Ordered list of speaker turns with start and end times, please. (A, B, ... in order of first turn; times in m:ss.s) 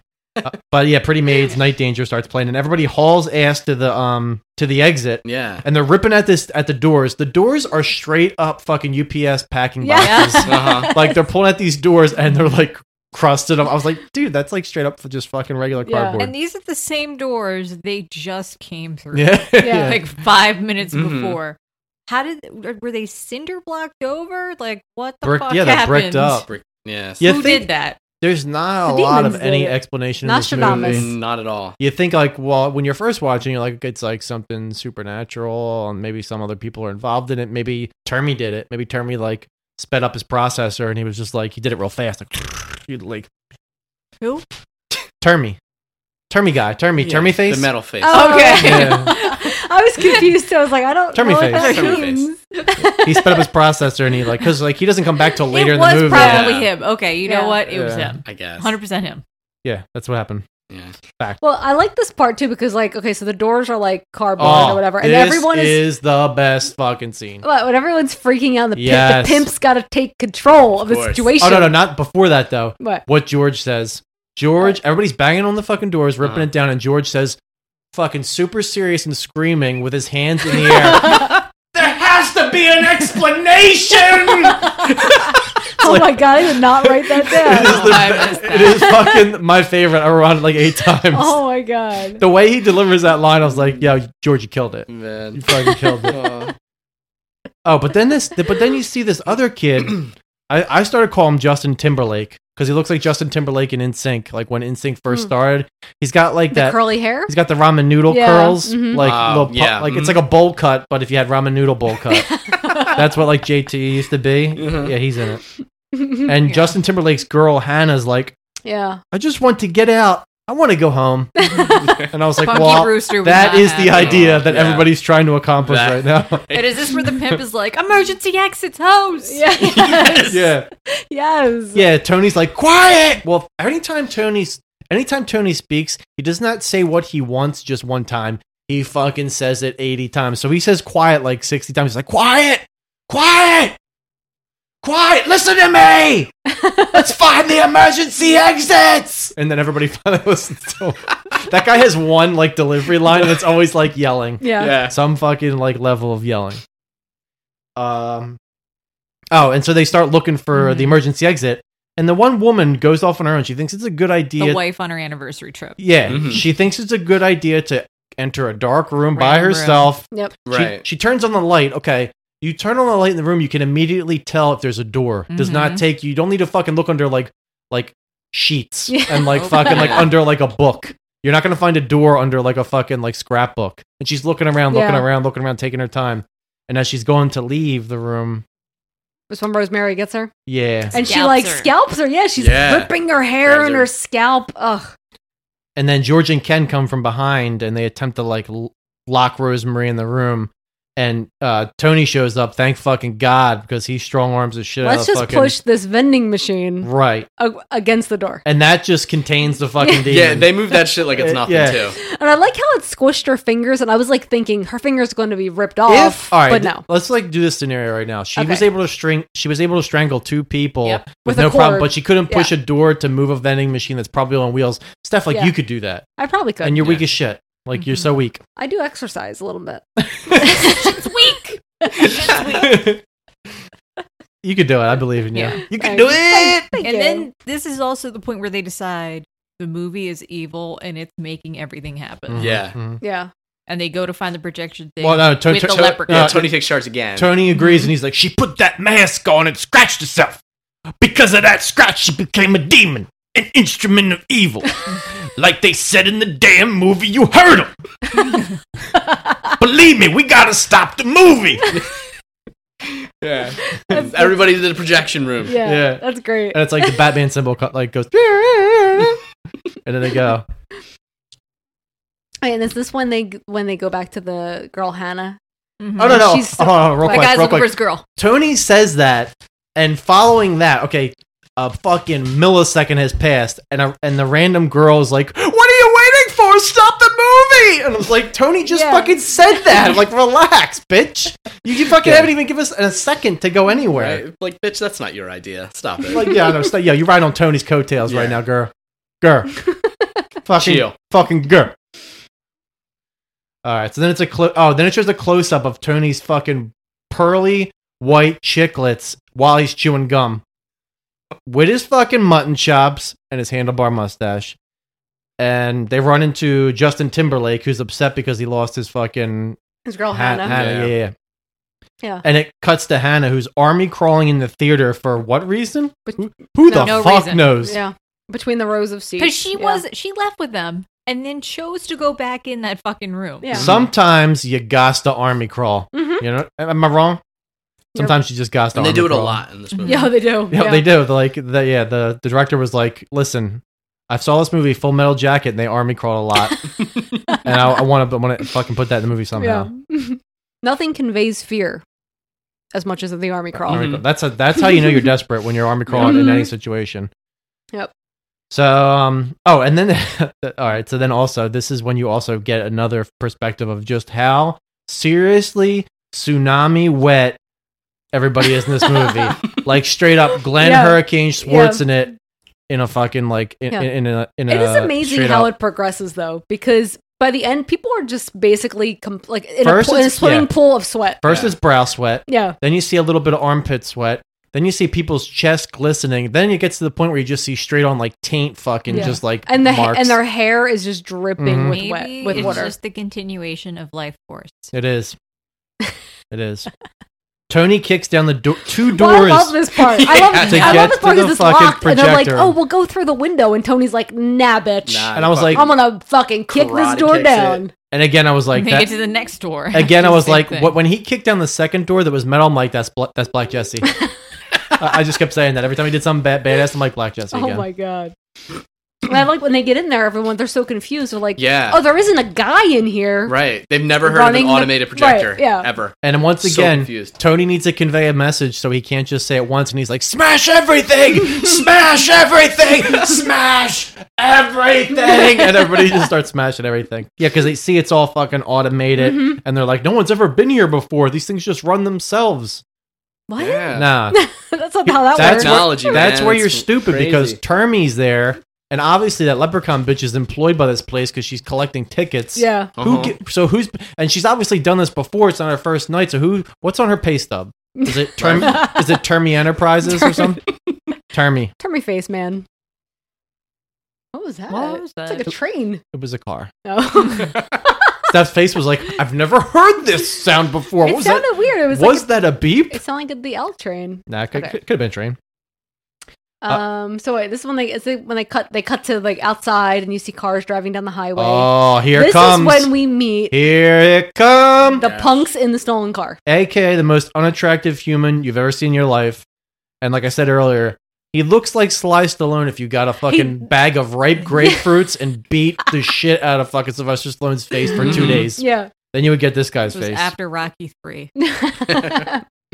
0:00.4-0:16.3 A
0:05.2-0:05.6 B
0:09.8-0:11.2 C
0:10.0-0:10.9 D
0:10.5-0:10.9 B
0:15.9-0:16.2 C
0:16.2-0:21.6 D
0:19.1-0:20.0 A
0:19.6-0:20.0 C
0:20.9-0:21.4 B
0:22.1-0:26.4 D
0:25.2-0:26.5 A
0:26.5-0:27.3 B
0:27.2-0:27.7 A
0:27.2-0:28.0 D
0:28.2-0:31.2 A
0:28.8-0:31.1 C
0:30.6-0:31.8 B
0:31.8-0:43.3 A
0:44.2-0:44.4 D
0:45.2-0:45.6 A
0:46.3-0:47.7 A
0:47.0-0:48.6 B
0:48.0-0:53.5 C
0:48.0-0:50.3 D
0:48.6-0:49.1 A
0:51.1-0:52.0 A
0:51.6-0:52.3 B
0:52.8-0:56.6 A
0:55.5-0:59.2 D
0:56.1-0:56.7 B
0:57.2-0:57.6 C
0:57.7-0:58.2 A
0:58.3-0:58.7 B
0:59.6-1:00.4 A
1:01.4-1:05.8 C
1:04.4-1:07.4 A
1:07.4-1:11.8 C
1:08.7-1:09.5 A
1:10.9-1:11.3 B
1:11.4-1:17.4 A
1:12.8-1:13.0 C
1:16.2-1:16.5 B
1:17.9-1:31.4 A
1:20.6-1:21.4 C
1:24.6-1:25.1 C
1:25.8-1:27.9 C
1:27.6-1:29.1 D
1:28.8-1:29.1 C
1:31.1-1:32.2 C
1:32.2-1:36.2 A
1:34.9-1:35.4 B
1:36.1-1:36.5 B
1:37.6-1:55.4 A
1:46.5-1:47.3 C
1:48.1-1:49.0 C
1:49.0-1:50.2 B
1:52.4-1:52.9 C
1:54.6-1:54.9 B
1:55.9-1:56.3 C
1:56.3-1:58.3 A
1:58.6-1:59.0 C
1:59.1-2:06.4 A
2:01.4-2:01.8 C
2:02.4-2:04.3 D
2:03.9-2:04.9 B
2:05.6-2:06.7 B
2:06.5-2:10.1 D
2:09.3-2:11.8 C
2:09.8-2:10.3 B
2:10.3-2:10.7 A
2:11.7-2:23.8 A
2:24.8-2:26.3 A
2:26.5-2:26.9 C
2:26.9-2:36.6 A
2:34.4-2:34.8 C
2:34.6-2:34.9 B
2:37.8-2:38.4 A
2:39.3-2:44.6 A
2:40.5-2:41.0 D
2:44.4-2:45.8 D
2:45.8-3:08.4 A
2:46.1-2:46.5 B
2:49.2-2:49.9 D
2:50.4-2:50.8 B
2:55.3-2:55.8 D
2:58.9-2:59.9 C
2:59.4-3:00.1 D
2:59.7-3:00.1 B
3:04.7-3:05.1 C
3:09.3-3:10.3 C
3:10.4-3:11.0 A
3:10.9-3:14.9 C
3:11.0-3:11.7 D
3:12.4-3:12.9 B
3:13.4-3:13.9 B
3:15.8-3:25.6 A
3:24.8-3:28.4 C
3:26.8-3:27.3 A
3:28.4-3:30.5 A
3:30.1-3:32.0 B
3:31.1-3:31.8 A
3:32.0-3:36.8 C
3:35.9-3:46.0 A
3:38.4-3:38.6 C
3:41.2-3:42.5 C
3:46.2-3:46.9 C
3:46.6-3:48.4 A
3:46.8-3:47.0 B
3:47.7-3:48.1 D
3:48.6-3:49.8 C
3:50.1-3:50.6 A
3:50.4-3:52.4 C
3:50.6-3:52.7 D
3:52.3-3:53.0 A
3:54.4-3:56.8 A
3:55.3-3:55.7 D
3:55.7-3:57.3 C
3:56.8-4:02.5 D
4:02.3-4:03.0 A
4:02.4-4:02.7 B
4:03.0-4:03.3 C
4:03.7-4:06.4 D
4:05.0-4:06.6 A
4:05.5-4:07.3 B
4:07.1-4:10.4 A
4:07.6-4:07.9 D
4:11.0-4:14.8 A
4:15.4-4:17.7 A
4:19.6-4:21.8 A
4:23.2-4:25.6 B
4:23.9-4:24.5 C
4:25.4-4:27.0 C
4:25.6-4:29.2 A
4:29.8-4:30.4 A
4:32.4-4:35.4 C
4:35.8-4:36.5 D
4:36.0-4:54.2 A
4:36.0-4:37.5 C
4:37.0-4:38.0 D
4:48.6-4:49.2 C
4:52.0-4:52.3 B
4:53.9-4:56.4 B
4:56.1-4:59.6 A
4:58.0-4:58.4 B
5:00.4-5:01.7 A
5:00.6-5:00.9 B
5:03.6-5:10.4 A
5:11.4-5:14.6 A
5:15.4-5:19.6 A
5:19.8-5:20.6 C
5:20.1-5:21.1 A
5:20.5-5:20.9 B
5:22.2-5:27.8 A
5:26.0-5:26.9 C
5:26.7-5:27.7 D
5:27.6-5:29.8 C
5:29.2-5:33.6 D
5:33.4-5:33.7 C
5:33.6-5:37.2 A
5:33.6-5:33.9 B
5:35.9-5:36.2 C
5:38.0-5:39.4 A
5:38.7-5:40.1 B
5:39.8-5:40.2 D
5:39.9-5:40.9 C
5:40.5-5:46.7 A
5:47.4-5:49.7 A
5:49.4-5:51.8 C
5:52.7-5:53.8 C
5:53.6-5:57.1 A
5:53.7-5:54.0 B
5:56.0-5:56.4 C
5:58.5-6:07.4 A
6:08.1-6:12.1 A
6:10.6-6:11.8 C
6:12.7-6:15.5 A
6:14.5-6:21.2 C
6:19.6-6:20.5 A
6:21.2-6:30.2 A
6:21.2-6:21.5 B
6:22.3-6:22.6 C
6:28.9-6:29.2 D
6:28.9-6:32.7 C
6:31.4-6:31.8 A
6:31.7-6:34.7 D
6:32.3-6:32.6 B
6:34.7-6:35.2 A
6:36.3-6:36.7 A
6:37.5-6:39.6 A
6:38.9-6:47.7 C
6:40.0-6:40.8 B
6:40.3-6:41.0 D
6:40.4-6:42.6 A
6:44.9-6:45.8 B
6:45.1-6:45.7 A
6:46.5-6:47.6 B
6:47.9-6:48.9 A
6:48.5-6:50.8 D
6:49.7-6:54.0 A
6:54.8-6:57.6 A
6:57.3-6:58.1 C
6:59.1-7:03.3 C
7:01.4-7:01.8 B
7:03.3-7:07.2 B
7:04.0-7:05.7 C
7:06.0-7:22.6 A
7:15.0-7:15.8 C
7:19.0-7:19.4 C
7:23.3-7:26.1 C
7:23.4-7:23.9 B
7:23.7-7:24.2 A
7:24.9-7:40.5 A
7:25.1-7:27.4 B
7:32.4-7:32.7 C
7:32.8-7:33.1 B
7:37.8-7:39.0 C
7:38.2-7:38.6 B
7:41.1-7:41.5 A
7:41.6-7:42.4 C
7:44.1-7:45.8 C
7:44.5-7:45.3 D
7:45.9-7:46.5 A
7:46.6-7:47.4 C
7:48.1-7:52.8 A
7:50.8-7:54.6 C
7:54.1-7:55.2 A
7:56.4-8:03.3 C
8:01.2-8:02.8 A
8:03.3-8:04.8 A
8:04.8-8:06.2 C
8:04.8-8:05.2 B
8:06.3-8:09.2 A
8:09.8-8:20.1 A
8:17.8-8:18.3 B
8:17.8-8:18.7 C
8:19.7-8:21.1 D
8:21.2-8:22.2 C